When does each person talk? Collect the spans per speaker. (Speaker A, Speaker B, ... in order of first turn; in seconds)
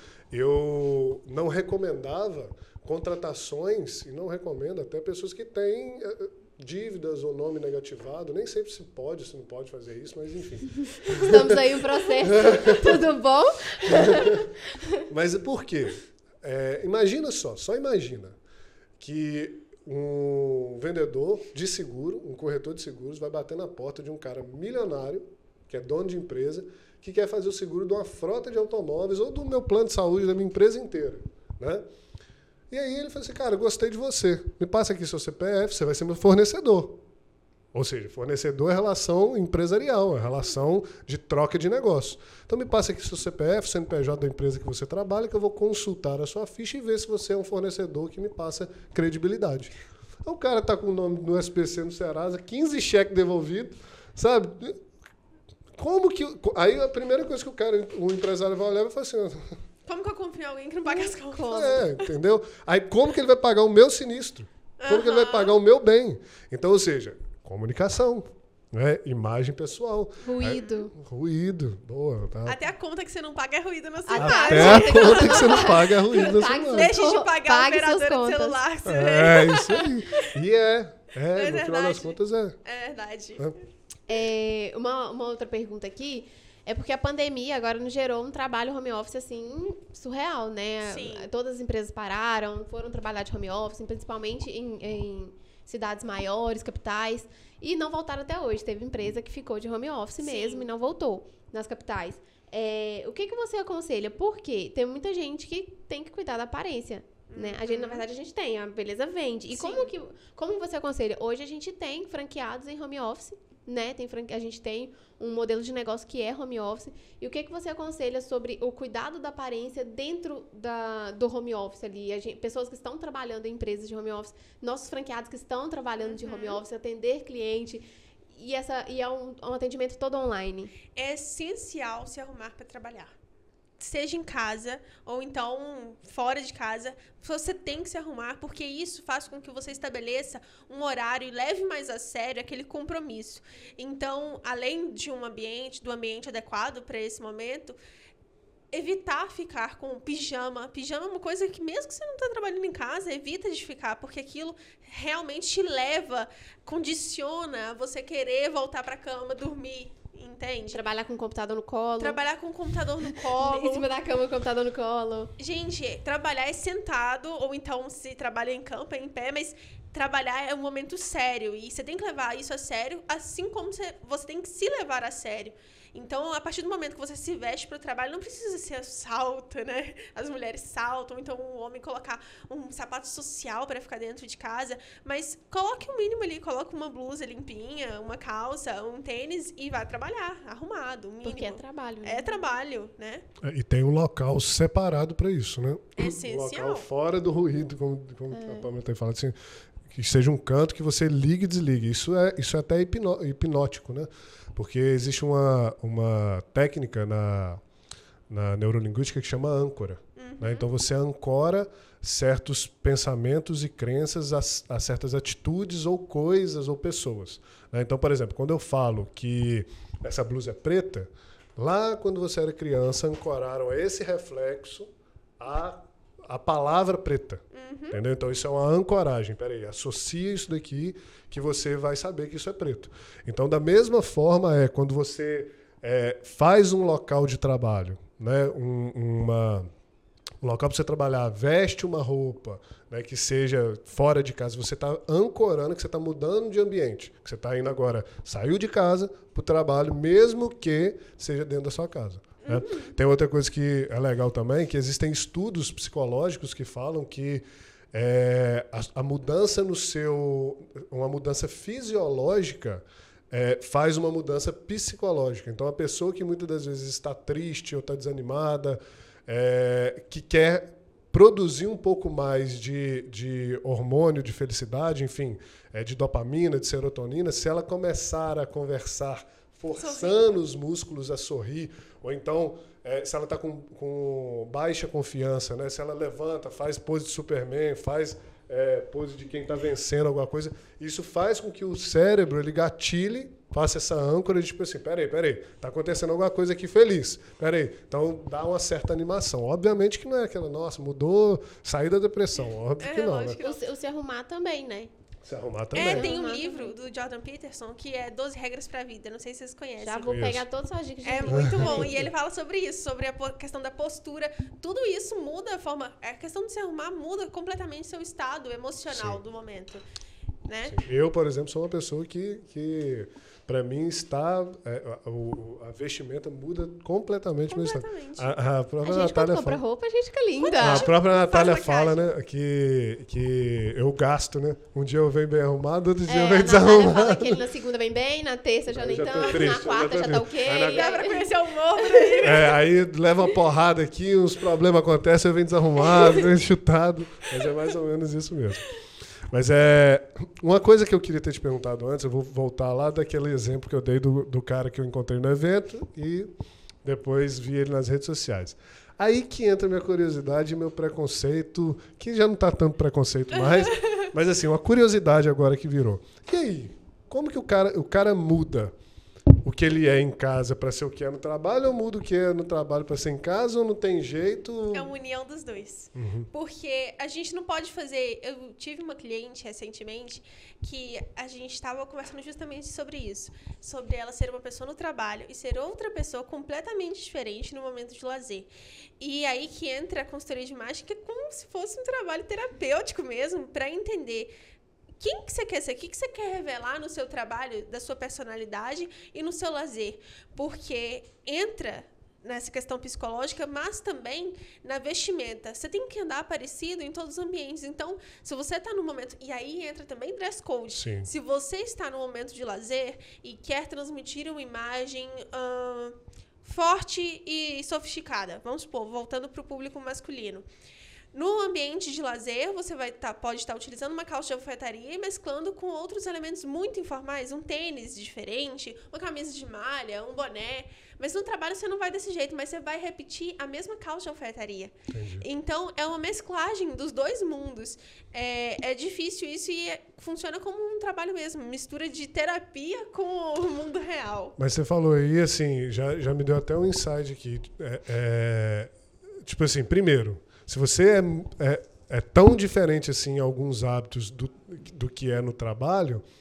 Speaker A: 0.3-11.7, 12.2-13.0, 13.8-14.5, 15.1-18.4, 19.0-31.8, 32.7-37.0, 37.7-49.7, 50.2-54.8, 55.8-59.6, 61.5-72.6, 74.2-76.9, 78.8-82.5, 193.4-199.3, 199.9-207.6, 208.3-224.9, 225.4-239.7, 240.4-303.4, 305.2-306.1, 310.1-310.4, 311.3-312.1, 318.9-319.2, 320.6-329.6, 330.6-337.4, 338.7-341.0, 342.2-348.7, 349.3-356.3, 356.8-368.7, 369.4-374.9, 375.9-376.3, 410.7-411.1, 434.9-435.2, 444.4-448.7, 449.2-456.0
Speaker B: 11.1-14.9, 60.9-61.8, 70.2-70.9, 74.1-78.6, 84.1-130.7, 160.7-162.2, 163.1-165.3, 191.2-192.4, 198.3-198.7, 303.4-304.9, 305.7-306.7, 309.8-312.0, 328.8-330.9, 336.1-342.2
Speaker C: 59.9-61.9, 64.8-65.5, 70.5-70.8, 72.5-75.8, 76.7-80.3, 81.3-83.5, 90.8-91.3, 100.2-100.7, 107.3-108.0, 109.5-109.9, 126.0-126.6, 130.9-133.1, 133.8-147.8, 148.7-160.8, 162.0-163.9, 165.4-193.2, 196.0-196.8, 210.2-210.7, 227.5-228.0, 252.4-252.9, 279.8-280.3, 302.8-303.6, 305.7-310.2, 311.0-319.8, 320.4-320.8, 327.5-328.3, 330.4-332.0, 340.4-342.6, 363.5-363.9, 374.7-388.5, 389.0-394.3, 395.0-420.4, 421.1-444.3